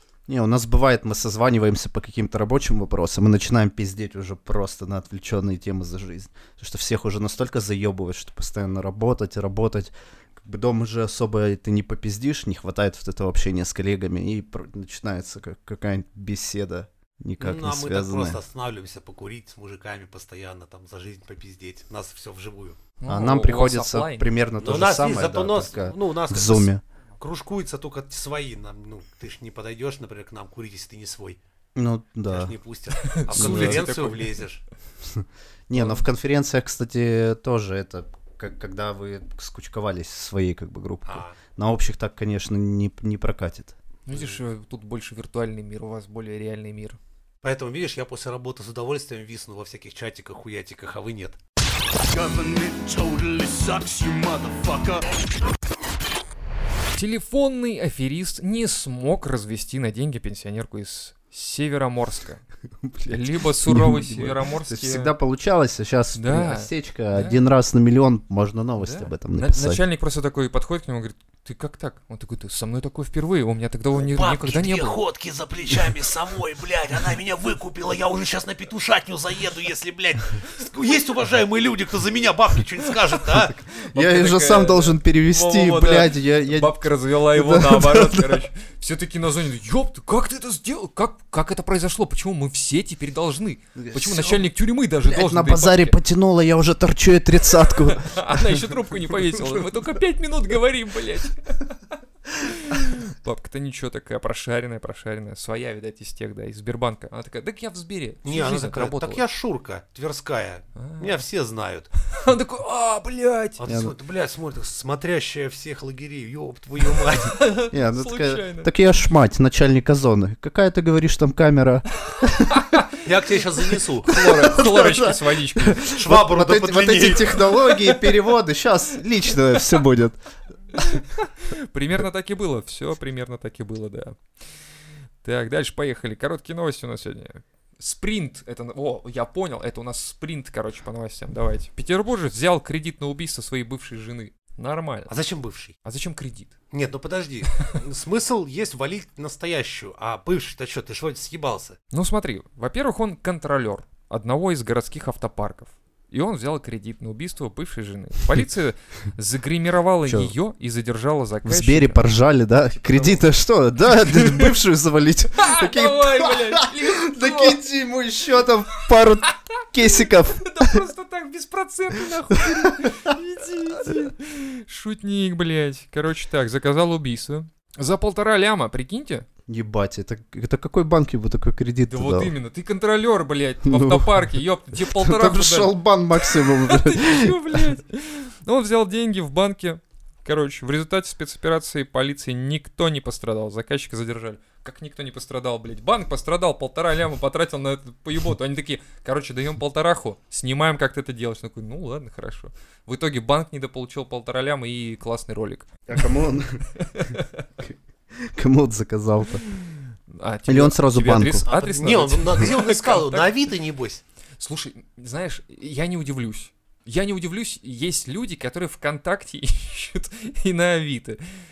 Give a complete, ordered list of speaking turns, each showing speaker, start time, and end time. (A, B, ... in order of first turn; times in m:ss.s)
0:00.3-0:18.4 A
0:17.4-0:22.8 B
0:23.0-0:24.3 C
0:23.1-0:26.8 A
0:24.6-0:31.4 B
0:31.7-0:32.5 A
0:32.3-0:34.6 B
0:33.0-0:34.4 C
0:33.3-0:33.9 A
0:35.0-0:43.7 A
0:35.7-0:36.0 C
0:41.0-0:41.4 B
0:44.0-0:47.0 C
0:47.4-0:51.4 B
0:52.1-0:55.0 D
0:56.9-1:02.4 C
1:02.8-1:09.8 A
1:03.0-1:05.1 C
1:06.2-1:07.4 C
1:08.8-1:15.0 C
1:14.0-1:23.6 B
1:23.8-1:36.0 C
1:23.8-1:26.8 A
1:27.3-1:28.4 A
1:33.8-1:34.4 A
1:35.0-1:38.6 A
1:37.8-1:49.2 C
1:39.3-1:39.6 A
1:48.2-1:51.9 B
1:50.8-1:51.2 C
1:52.1-1:53.6 C
1:53.6-1:57.4 B
1:53.6-1:53.9 A
1:57.2-1:58.7 C
1:57.7-2:02.6 A
2:02.5-2:02.9 C
2:03.0-2:04.1 B
2:04.0-2:05.9 C
2:04.1-2:10.2 A
2:05.9-2:07.4 B
2:07.6-2:08.2 C
2:10.7-2:14.2 C
2:15.2-2:25.1 C
2:25.1-2:25.7 B
2:25.8-2:26.5 C
2:26.7-2:31.8 B
2:31.9-2:42.0 C
2:40.0-2:40.3 A
2:41.4-2:50.8 A
2:42.8-2:43.2 C
2:44.0-2:44.5 C
2:45.4-2:47.6 C
2:49.8-2:59.2 C
2:52.3-2:53.1 A
2:59.5-3:02.3 A
3:01.9-3:25.9 C
3:03.6-3:04.1 A
3:04.9-3:07.6 A
3:25.9-3:26.6 A
3:26.7-3:27.4 C
3:27.6-3:29.4 A
3:30.1-3:33.3 C
3:30.5-3:31.5 A
3:31.5-3:34.0 B
3:34.4-3:41.2 C